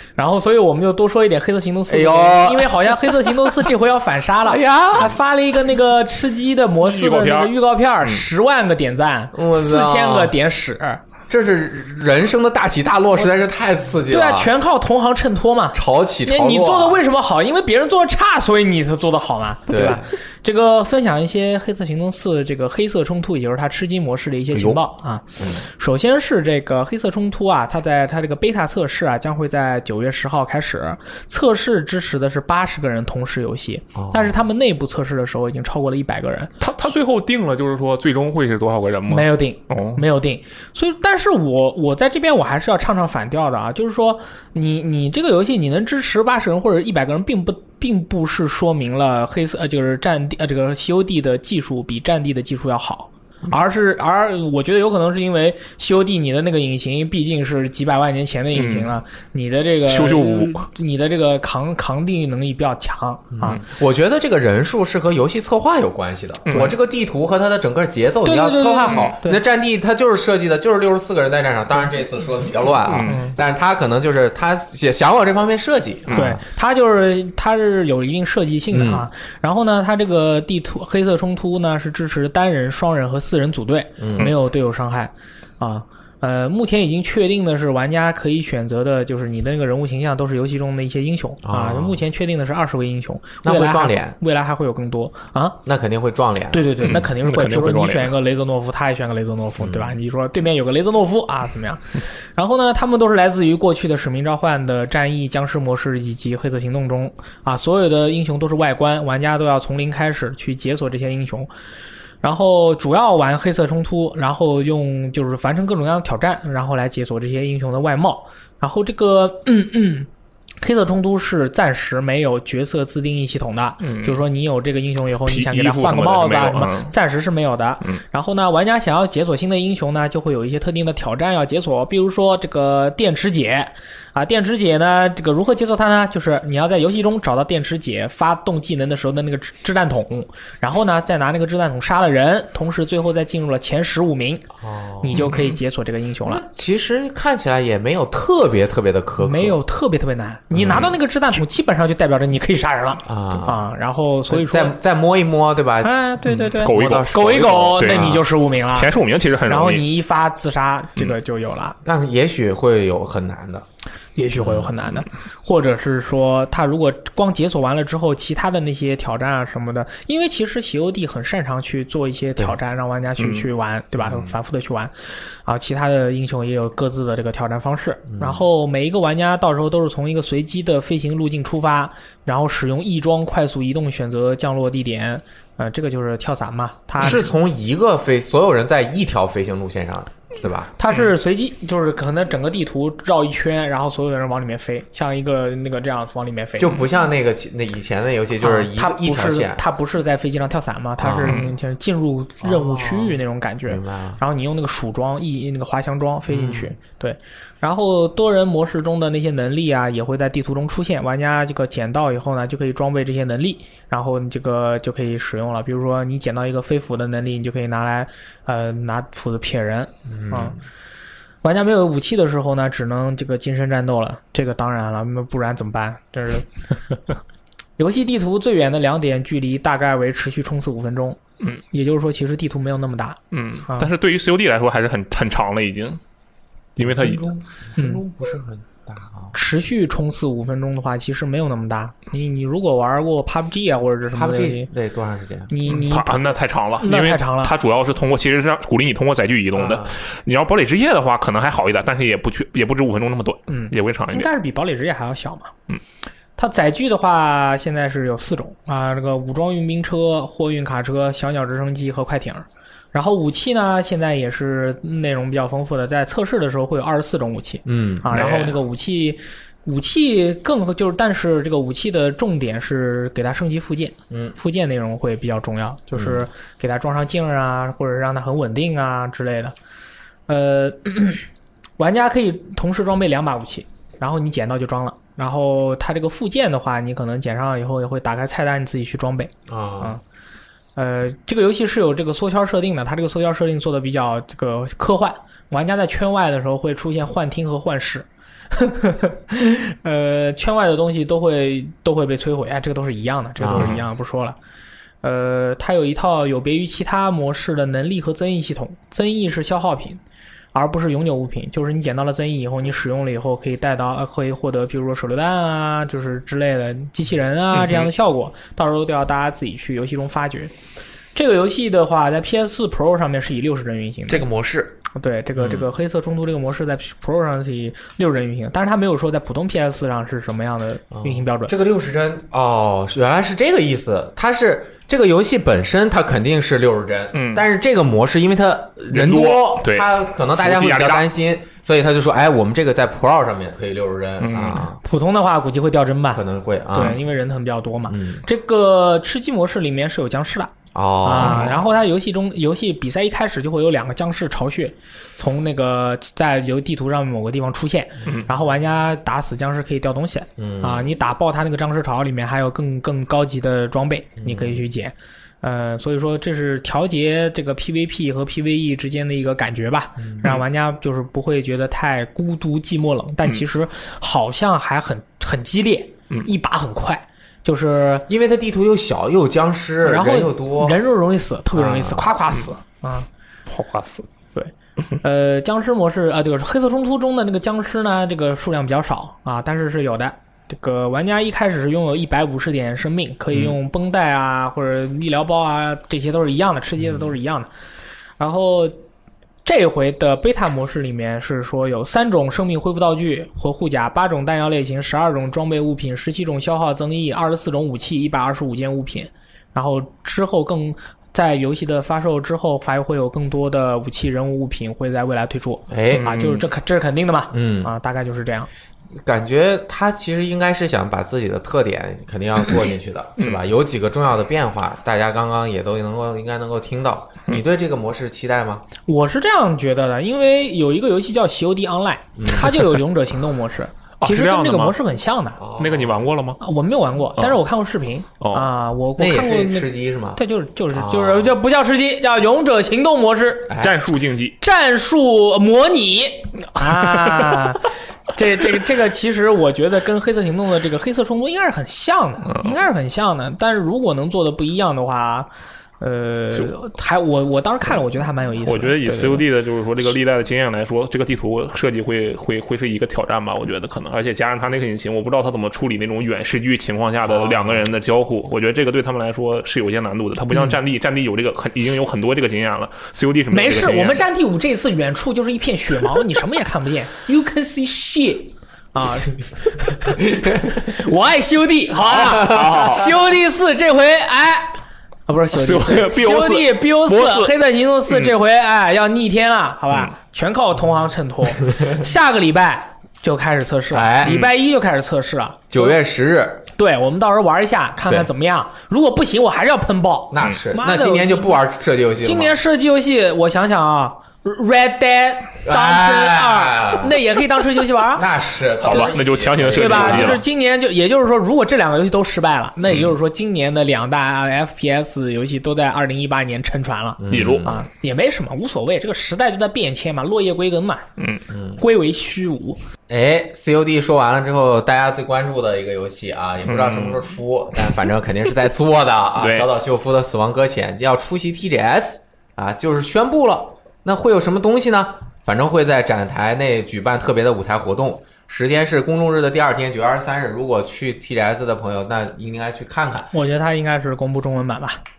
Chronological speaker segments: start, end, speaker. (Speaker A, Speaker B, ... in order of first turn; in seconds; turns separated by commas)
Speaker A: 0.2-11.0, Speaker B: 1.9-3.5, Speaker B: 4.5-5.1, Speaker C: 6.8-8.2, Speaker B: 9.3-10.3, Speaker B: 11.3-14.5, Speaker A: 14.1-36.5, Speaker B: 15.7-17.0, Speaker B: 19.7-20.1, Speaker B: 24.5-24.8, Speaker B: 25.4-25.6, Speaker B: 34.0-34.4, Speaker C: 36.6-40.0, Speaker A: 39.1-63.6, Speaker C: 58.5-58.9, Speaker C: 59.9-60.7, Speaker B: 63.3-76.4, Speaker C: 66.5-66.7, Speaker A: 68.2-69.4, Speaker C: 72.9-73.2, Speaker A: 73.1-73.3, Speaker C: 76.1-76.4, Speaker A: 76.1-95.6, Speaker B: 78.7-79.0, Speaker B: 84.0-84.3, Speaker B: 91.4-92.0, Speaker B: 93.4-94.2, Speaker B: 95.7-96.8, Speaker A: 96.5-111.5, Speaker C: 96.8-98.1, Speaker B: 99.6-100.0, Speaker A: 112.2-120.1, Speaker A: 120.6-144.5, Speaker C: 123.8-124.2, Speaker C: 125.2-126.9, Speaker B: 144.6-145.5, Speaker A: 145.0-146.4, Speaker B: 146.3-149.6, Speaker A: 149.2-154.7, Speaker B: 150.5-151.0, Speaker B: 153.1-153.6, Speaker B: 154.3-158.2, Speaker A: 155.8-158.9, Speaker C: 156.3-159.8, Speaker A: 159.5-161.8, Speaker B: 161.8-163.7, Speaker A: 164.2-187.3, Speaker B: 164.4-164.7, Speaker C: 173.2-173.5, Speaker B: 174.0-174.3, Speaker B: 178.1-178.4, Speaker B: 187.0-190.7, Speaker A: 190.8-196.8, Speaker B: 196.6-199.6, Speaker A: 198.4-220.6, Speaker B: 201.0-201.5, Speaker C: 201.2-201.5, Speaker B: 202.4-204.2, Speaker B: 206.3-206.8, Speaker B: 220.1-220.7, Speaker A: 221.4-226.5, Speaker A: 227.8-231.2, Speaker A: 231.7-233.9, Speaker C: 233.3-236.0, Speaker C: 236.8-237.3, Speaker B: 236.8-239.3, Speaker A: 237.8-238.0, Speaker A: 239.3-244.7, Speaker B: 244.2-245.5, Speaker A: 245.5-246.2, Speaker C: 245.7-254.3, Speaker A: 246.8-247.5, Speaker B: 249.5-250.0, Speaker A: 253.5-255.5, Speaker A: 256.4-279.6, Speaker B: 267.7-268.1, Speaker C: 268.1-268.6, Speaker B: 274.1-274.4, Speaker B: 275.9-276.2, Speaker A: 280.3-281.3, Speaker A: 281.8-290.0, Speaker B: 289.5-289.9, Speaker A: 290.8-304.4, Speaker B: 303.4-303.8, Speaker C: 303.5-303.8, Speaker A: 305.0-310.0, Speaker A: 310.5-320.5, Speaker C: 317.6-317.9, Speaker A: 321.1-324.3, Speaker B: 324.1-324.8, Speaker A: 324.9-331.5, Speaker B: 325.4-325.7, Speaker B: 330.9-344.8, Speaker C: 337.1-337.4, Speaker C: 338.9-341.1, Speaker C: 344.2-344.7, Speaker A: 344.8-350.5, Speaker B: 346.1-347.0, Speaker B: 347.9-348.2, Speaker B: 350.7-351.7, Speaker A: 351.0-378.1, Speaker C: 351.2-351.5, Speaker B: 360.4-360.9, Speaker B: 364.2-364.6, Speaker B: 370.0-370.4, Speaker B: 378.1-380.8, Speaker A: 379.8-383.1, Speaker B: 381.6-382.1, Speaker C: 383.5-384.1, Speaker A: 384.3-397.5, Speaker A: 398.2-398.8, Speaker A: 399.4-418.5, Speaker B: 415.7-416.2, Speaker C: 415.9-416.4, Speaker B: 417.3-417.7, Speaker B: 418.9-428.6, Speaker C: 423.2-423.4, Speaker A: 428.9-435.4, Speaker B: 432.2-432.6, Speaker C: 434.0-434.8, Speaker B: 435.4-436.1, Speaker C: 435.6-436.4, Speaker A: 436.4-443.5, Speaker C: 438.2-438.5, Speaker B: 439.0-440.2, Speaker B: 440.7-441.4, Speaker B: 443.5-443.8, Speaker C: 443.6-444.4, Speaker A: 444.4-455.3, Speaker C: 446.8-447.5, Speaker C: 452.3-452.6, Speaker A: 455.8-459.3, Speaker C: 458.4-474.0, Speaker B: 467.1-467.7, Speaker A: 473.3-495.8, Speaker C: 481.9-482.9, Speaker C: 485.3-487.4, Speaker B: 493.7-494.2, Speaker C: 494.0-494.3, Speaker B: 495.5-496.4, Speaker A: 496.6-501.4, Speaker B: 500.1-502.4, Speaker A: 502.0-508.1, Speaker B: 505.4-507.0, Speaker B: 507.9-510.2, Speaker C: 508.6-510.2, Speaker A: 509.5-520.9, Speaker B: 517.0-517.6, Speaker C: 517.1-517.6, Speaker C: 521.0-521.2, Speaker B: 521.3-521.6, Speaker A: 521.6-522.6, Speaker B: 522.9-543.1, Speaker C: 526.5-527.0, Speaker C: 529.2-529.5, Speaker A: 543.1-544.8